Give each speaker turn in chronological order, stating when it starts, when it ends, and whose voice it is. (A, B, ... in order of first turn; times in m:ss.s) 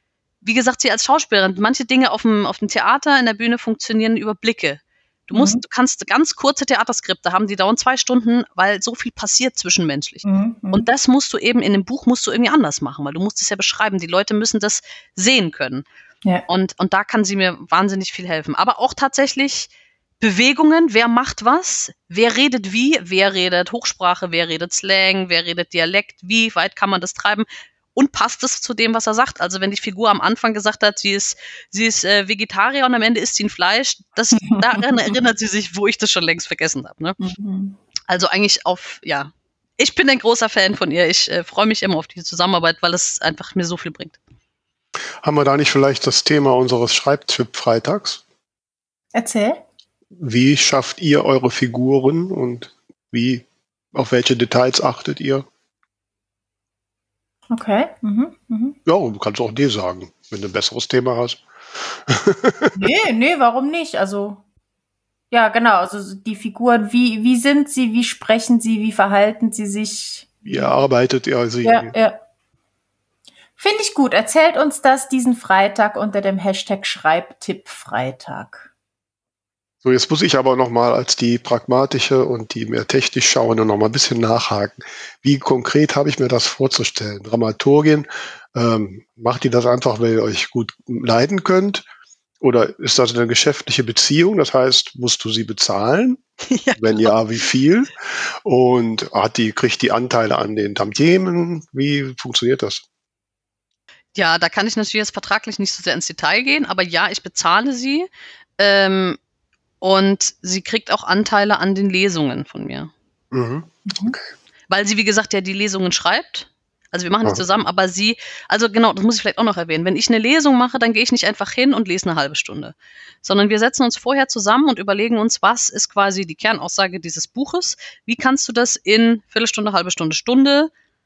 0:00.4-0:15.8 A
0:05.3-0:05.6 B
0:10.3-0:10.8 B
0:16.5-0:19.7 A
0:20.2-0:37.2 A
0:34.5-0:35.1 B
0:37.2-0:37.8 B
0:38.1-0:44.2 A
0:45.2-0:48.2 C
0:49.2-0:49.6 B
0:50.2-0:55.5 C
0:57.5-0:58.8 B
0:58.9-1:02.9 C
1:02.8-1:04.4 B
1:05.3-1:10.7 B
1:10.4-1:11.9 C
1:11.6-1:12.2 B
1:13.6-1:18.7 B
1:19.8-1:31.8 C
1:32.4-1:36.2 C
1:36.5-1:37.2 A
1:36.8-1:42.8 C
1:44.2-1:49.2 A
1:49.8-1:52.9 A
1:53.3-1:54.3 C
1:53.9-1:54.2 B
1:54.7-2:10.7 A